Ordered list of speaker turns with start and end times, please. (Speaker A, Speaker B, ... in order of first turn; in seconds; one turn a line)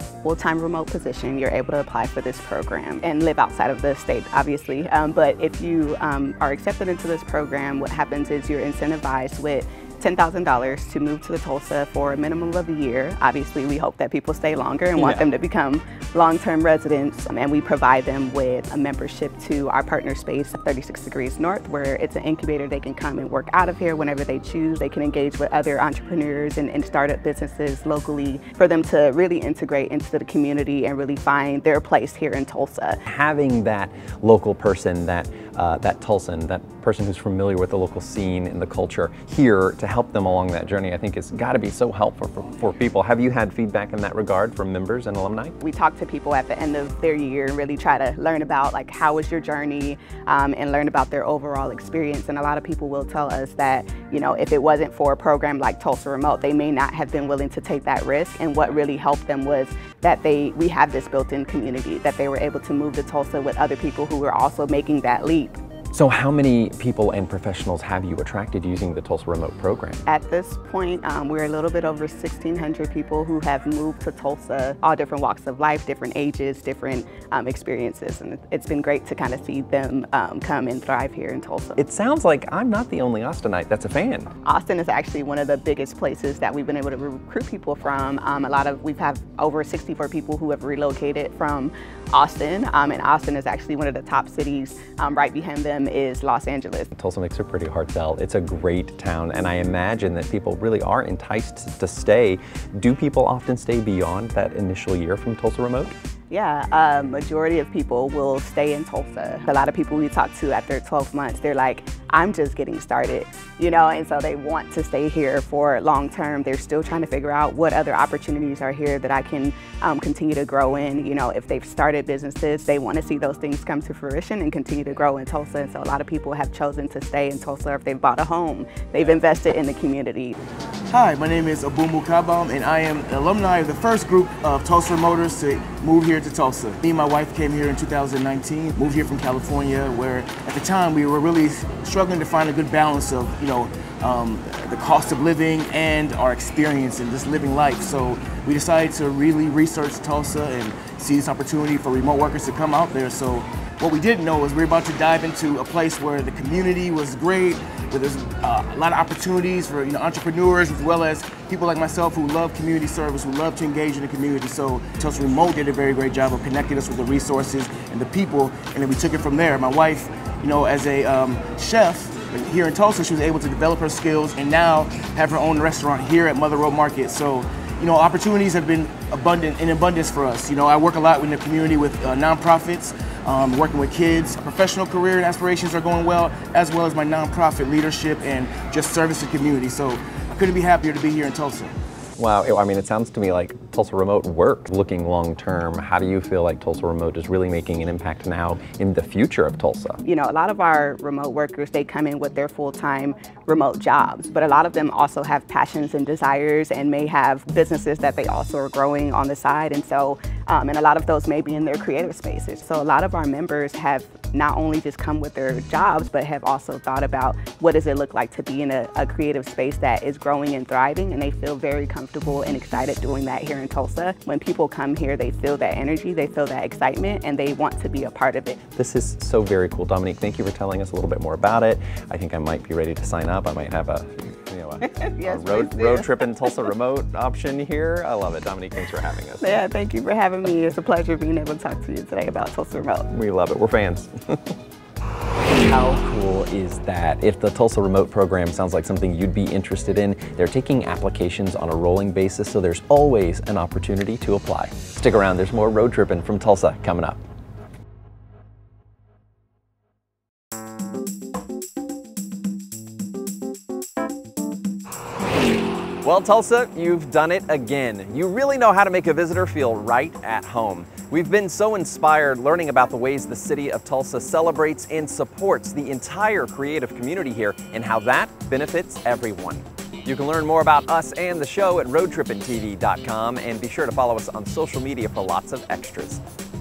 Speaker A: 0.2-33.0
Speaker B: 33.1-45.6
Speaker A: 45.6-65.5
Speaker B: 65.9-70.0
Speaker A: 70.1-81.8
Speaker B: 81.8-84.3
Speaker A: 84.5-96.9
Speaker B: 96.9-105.9
Speaker A: 106.3-130.3
Speaker C: 130.9-191.7
Speaker B: 192.2-200.0
Speaker A: 200.0-228.6
Speaker B: 228.8-239.5
Speaker A: 235.2-236.1
Speaker A: 239.4-243.0
Speaker B: 243.1-244.5
Speaker B: 245.6-257.2
Speaker B: 266.0-286.2